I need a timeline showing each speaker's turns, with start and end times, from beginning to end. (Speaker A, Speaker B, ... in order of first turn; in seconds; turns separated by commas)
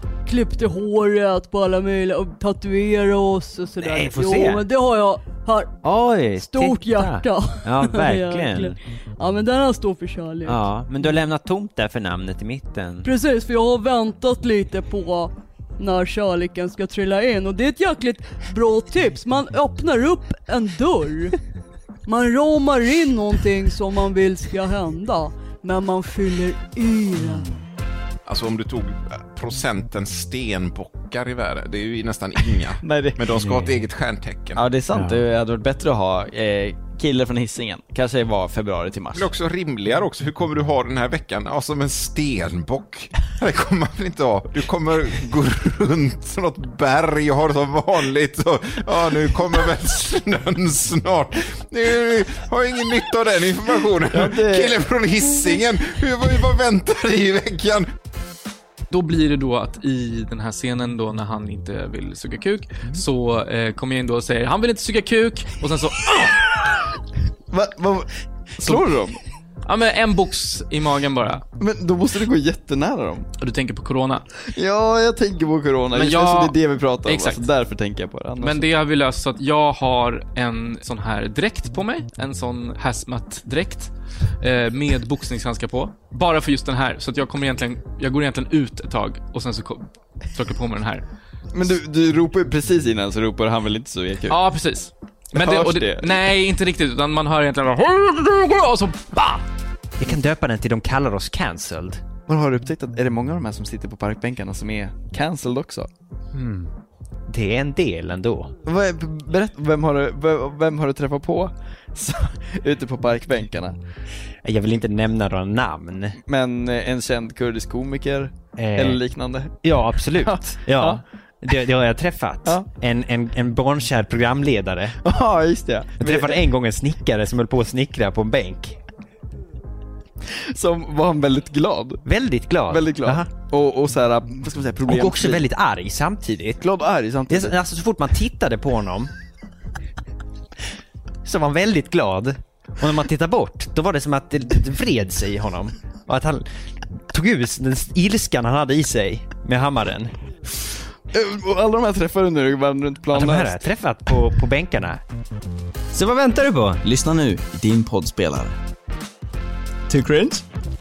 Speaker A: 0.2-5.8, Speaker B: 3.8-4.6, Speaker B: 5.8-8.8, Speaker A: 6.4-10.6, Speaker B: 10.4-13.1, Speaker A: 13.0-21.4, Speaker A: 22.1-27.5, Speaker C: 28.2-34.6, Speaker D: 32.5-33.3, Speaker B: 33.4-33.8, Speaker D: 34.5-39.3, Speaker B: 34.9-35.2, Speaker C: 39.1-57.9, Speaker D: 54.1-54.9, Speaker E: 58.9-66.4, Speaker D: 67.5-69.2, Speaker E: 69.6-71.4, Speaker D: 71.6-73.3, Speaker E: 73.4-74.2, Speaker D: 74.4-78.6, Speaker E: 75.9-77.5, Speaker E: 78.4-91.0, Speaker D: 91.5-94.4, Speaker E: 94.3-99.4, Speaker D: 95.3-96.2, Speaker B: 100.0-102.0, Speaker D: 102.3-105.9, Speaker B: 106.3-106.7, Speaker B: 107.3-108.5, Speaker D: 108.7-113.8, Speaker B: 114.4-116.2, Speaker D: 116.2-121.0, Speaker B: 118.6-119.0, Speaker B: 119.6-125.0, Speaker D: 125.0-126.4, Speaker B: 126.0-128.8, Speaker D: 130.2-132.0, Speaker B: 132.0-133.3, Speaker D: 132.7-135.4, Speaker B: 134.8-136.6, Speaker D: 136.6-137.6, Speaker B: 137.3-139.1, Speaker B: 141.2-146.4, Speaker B: 147.1-150.1, Speaker D: 151.1-153.7, Speaker B: 153.1-155.0, Speaker B: 155.9-156.8, Speaker D: 156.8-158.6, Speaker D: 159.9-160.4